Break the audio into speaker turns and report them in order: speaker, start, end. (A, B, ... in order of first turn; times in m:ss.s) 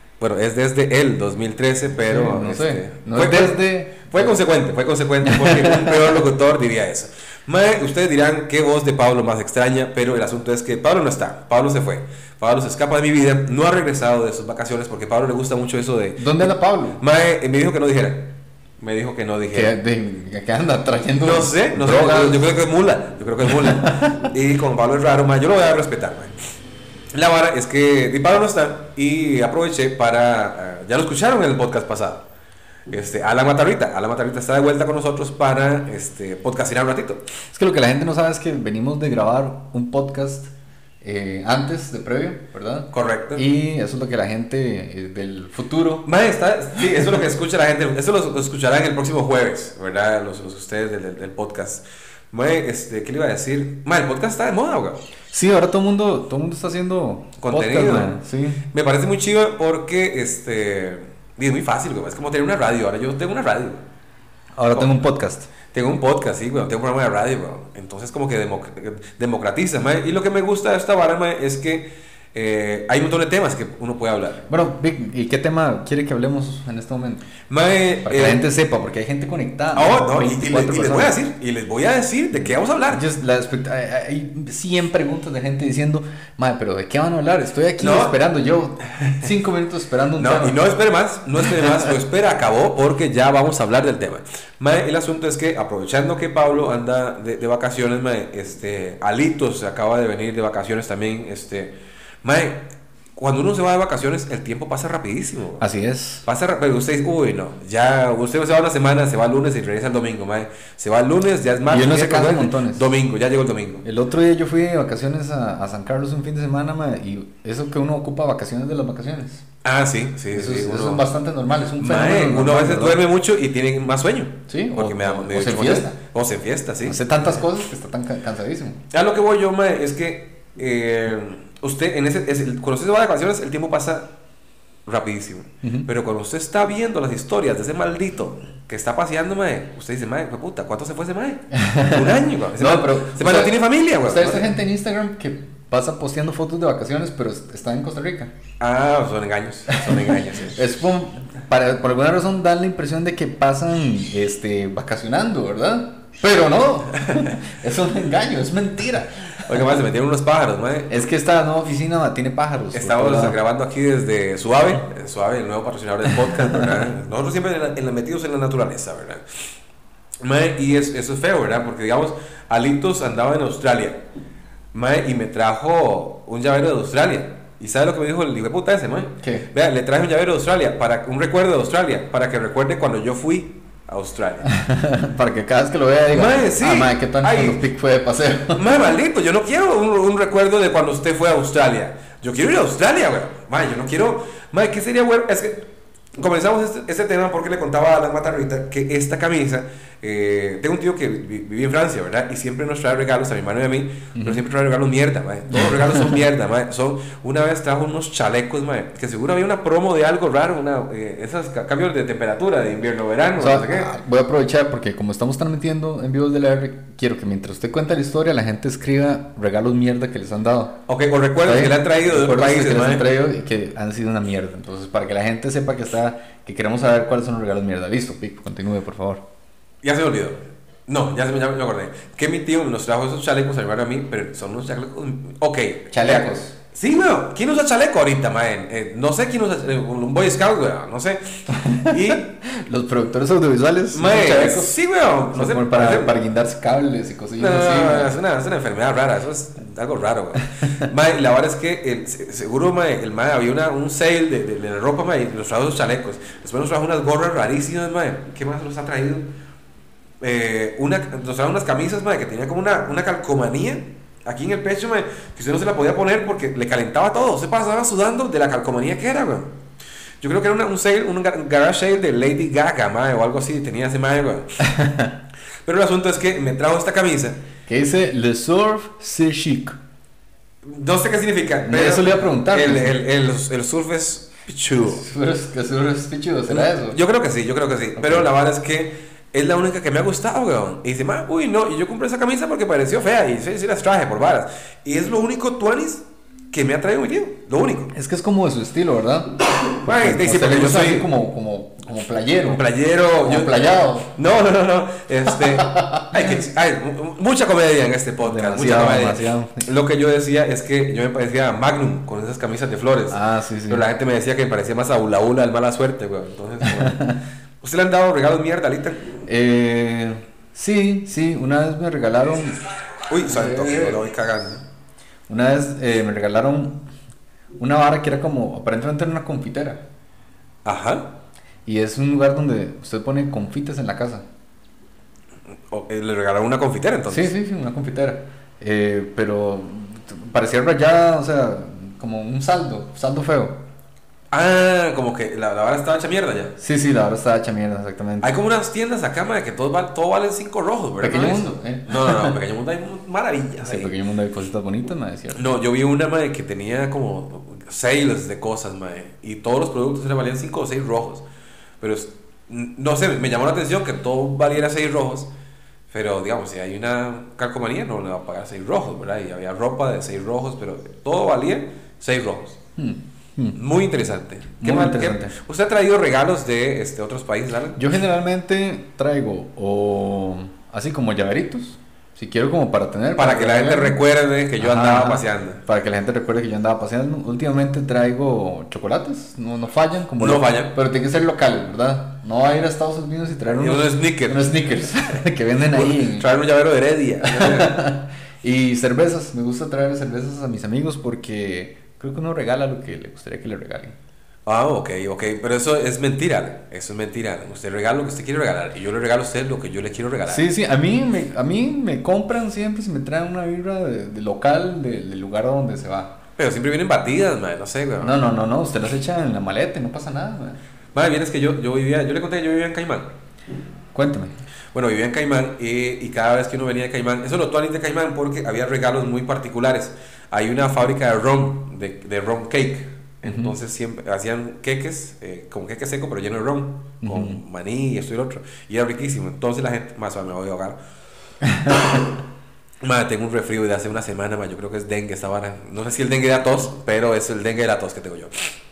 0:00.2-0:19.7 A
0:02.0-0:04.4 B
0:05.2-0:06.2 B
0:16.2-0:17.0 B
0:19.5-0:22.4 B
0:21.2-0:26.4 A
0:23.5-0:24.2 B
0:27.1-0:32.2 A
0:32.9-0:37.3 A
0:37.5-0:46.1 B
0:42.9-0:43.4 A
0:46.0-0:55.0 A
0:46.8-0:47.2 B
0:55.3-0:58.6 B
0:57.4-0:58.2 A
0:58.7-1:03.8 A
1:04.6-1:05.5 B
1:05.7-1:14.4 A
1:14.5-1:17.3 B
1:17.5-1:18.4 A
1:18.0-1:21.2 B
1:19.7-1:23.1 A
1:22.4-1:30.6 B
1:27.8-1:28.2 A
1:30.2-1:45.7 A
1:31.4-1:31.9 B
1:45.6-1:46.2 B
1:46.2-1:53.8 A
1:51.7-1:52.9 B
1:53.8-1:59.4 B
1:59.6-2:01.1 A
2:00.3-2:03.0 B
2:01.8-2:07.4 A
2:04.5-2:06.0 B
2:06.8-2:08.8 B
2:08.9-2:14.1 A
2:14.9-2:24.6 A
2:15.6-2:15.9 B
2:21.5-2:28.3 B
2:28.6-2:30.6 A
2:29.7-2:39.8 B
2:39.4-2:41.0 A
2:40.9-2:43.4 B
2:42.7-2:49.2 A
2:46.3-2:46.8 B
2:50.2-2:54.0 A
2:54.7-3:04.5 A
2:59.2-2:59.5 B
3:04.5-3:08.6 B
3:06.1-3:07.6 A
3:08.6-3:15.7 A
3:16.2-3:33.9 A
3:24.2-3:24.4 B
3:25.5-3:26.2 B
3:33.4-3:40.8 B
3:40.9-3:43.1 A
3:41.4-3:49.2 B
3:49.8-4:02.3 A
3:55.9-3:56.6 B
4:01.6-4:04.8 B
4:03.9-4:06.2 A
4:05.3-4:08.2 B
4:07.4-4:19.3 A
4:20.2-4:29.6 A
4:30.2-4:34.6 A
4:34.6-4:35.1 B
4:35.6-4:37.4 A
4:37.7-4:39.8 B
4:40.6-4:45.0 A
4:41.7-4:43.0 B
4:44.8-4:47.0 B
4:46.5-4:57.9 A
4:48.0-4:48.3 B
4:57.9-5:02.6 B
4:59.8-5:01.1 A
5:02.5-5:17.1 A
5:03.2-5:04.1 B
5:05.3-5:06.4 B
5:08.2-5:09.7 B
5:13.1-5:13.9 B
5:16.6-5:17.2 B
5:17.6-5:19.0 A
5:19.3-5:22.6 B
5:23.1-5:24.6 A
5:23.3-5:24.0 B
5:25.3-5:26.9 B
5:27.6-5:29.8 B
5:30.6-5:31.1 A
5:31.6-5:34.2 B
5:35.7-5:37.3 A
5:37.1-5:43.6 B
5:44.3-5:46.6 A
5:46.6-5:48.3 B
5:48.2-5:54.0 A
5:51.0-5:52.4 B
5:53.6-5:55.4 B
5:55.3-6:01.2 A
6:01.8-6:05.3 A
6:05.9-6:12.6 A
6:12.8-6:13.6 B
6:13.6-6:17.8 A
6:14.6-6:15.3 B
6:17.8-6:24.0 B
6:23.2-6:25.6 A
6:24.6-6:36.3 B
6:30.2-6:30.7 A
6:33.5-6:34.6 A
6:35.7-6:37.8 A
6:37.2-6:44.0 B
6:44.5-6:50.5 A
6:50.3-6:56.2 B
6:56.4-6:58.2 A
6:58.0-7:00.6 B
7:01.0-7:03.1 A
7:03.9-7:04.4 B
7:04.7-7:20.8 A
7:13.2-7:13.5 B
7:17.0-7:17.4 B
7:21.4-7:22.1 B
7:22.8-7:28.5 A